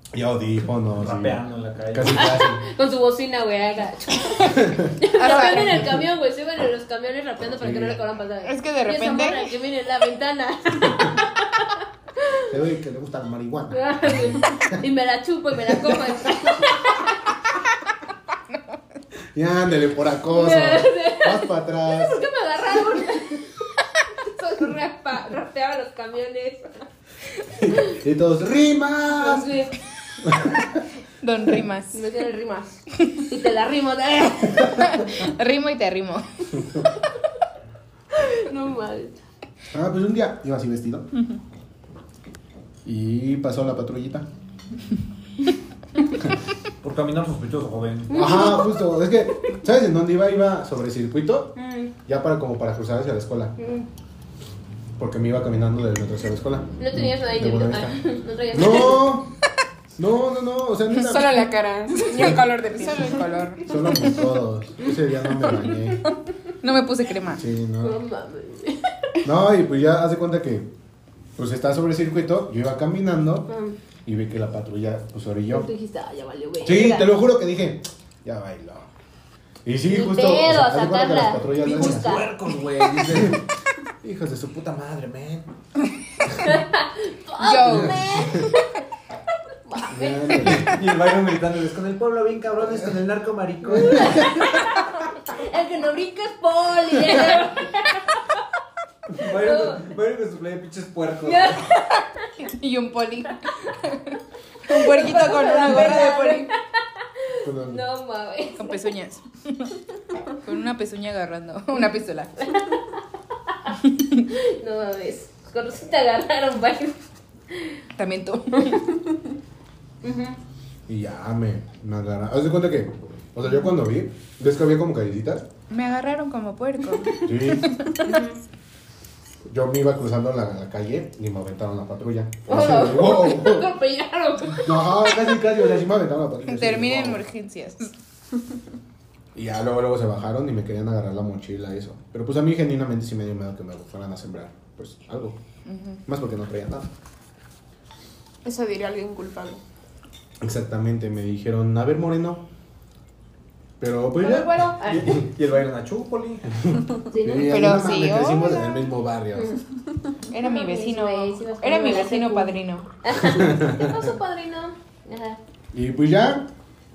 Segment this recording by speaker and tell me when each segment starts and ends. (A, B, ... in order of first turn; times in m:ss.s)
0:00.1-0:02.6 A
0:01.0-0:02.4 B
0:02.2-0:12.5 C
0:04.4-0:05.0 A
0:05.1-0:05.9 D
0:07.4-0:08.0 A
0:08.4-0:09.6 D
0:12.5-0:14.8 A
0:13.7-0:17.3 C
0:15.9-0:16.1 A
0:19.4-0:22.3 A
0:20.3-0:26.9 C
0:27.6-0:28.0 C
0:27.6-0:29.5 A
0:29.1-0:29.8 C
0:30.2-0:30.8 A
0:31.2-0:32.0 D
0:31.9-0:35.1 C
0:34.6-0:36.6 D
0:38.2-0:39.2 C
0:39.7-0:41.1 A
0:42.8-0:44.3 A
0:46.8-0:48.3 B
0:48.1-0:48.8 C
0:48.1-0:51.6 A
0:51.6-0:51.9 C
0:52.1-0:53.5 A
0:53.6-0:53.9 C
0:55.0-0:59.3 A
0:56.8-0:59.2 C
1:00.0-1:01.4 A
1:01.0-1:03.2 E
1:02.1-1:04.3 D
1:03.6-1:06.1 A
1:05.5-1:07.5 D
1:07.3-1:08.0 A
1:07.8-1:08.9 C
1:09.2-1:10.7 A
1:11.4-1:13.5 A
1:13.5-1:13.8 C
1:14.0-1:15.7 A
1:15.5-1:17.1 C
1:16.6-1:18.9 A
1:19.6-1:22.2 A
1:19.8-1:22.3 C
1:21.6-1:23.5 B
1:23.0-1:23.4 A
1:24.0-1:25.5 A
1:26.4-1:28.8 C
1:27.4-1:28.4 D
1:27.7-1:28.5 A
1:29.6-1:30.6 C
1:29.9-1:30.8 A
1:30.4-1:34.5 B
1:32.6-1:32.9 A
1:33.6-1:34.4 A
1:33.8-1:38.5 C
1:39.1-1:41.6 B
1:39.2-1:39.9 C
1:41.2-1:41.8 C
1:41.9-1:46.5 D
1:44.7-1:48.9 C
1:47.4-1:47.8 A
1:48.6-1:49.8 D
1:50.4-1:52.5 D
1:52.4-1:53.8 C
1:53.8-1:54.2 D
1:54.3-1:57.0 C
1:57.5-1:57.8 C
1:58.0-1:58.8 D
1:58.5-1:58.8 C
2:00.0-2:00.4 C
2:00.9-2:05.5 A
2:05.7-2:08.2 D
2:07.0-2:07.2 C
2:07.2-2:07.8 A
2:07.9-2:08.4 C
2:09.5-2:13.7 A
2:12.5-2:15.5 C
2:14.5-2:17.2 A
2:16.5-2:17.9 D
2:19.4-2:25.4 A
2:25.6-2:26.0 D
2:26.1-2:26.9 A
2:28.4-2:29.6 E
2:30.4-2:32.4 A
2:33.8-2:35.2 A
2:34.2-2:35.0 C
2:34.4-2:36.8 B
2:36.6-2:39.6 A
2:37.1-2:37.6 C
2:37.5-2:38.8 D
2:39.3-2:39.6 C
2:40.3-2:42.9 D
2:40.3-2:45.4 C
2:43.2-2:44.1 A
2:45.7-2:46.5 A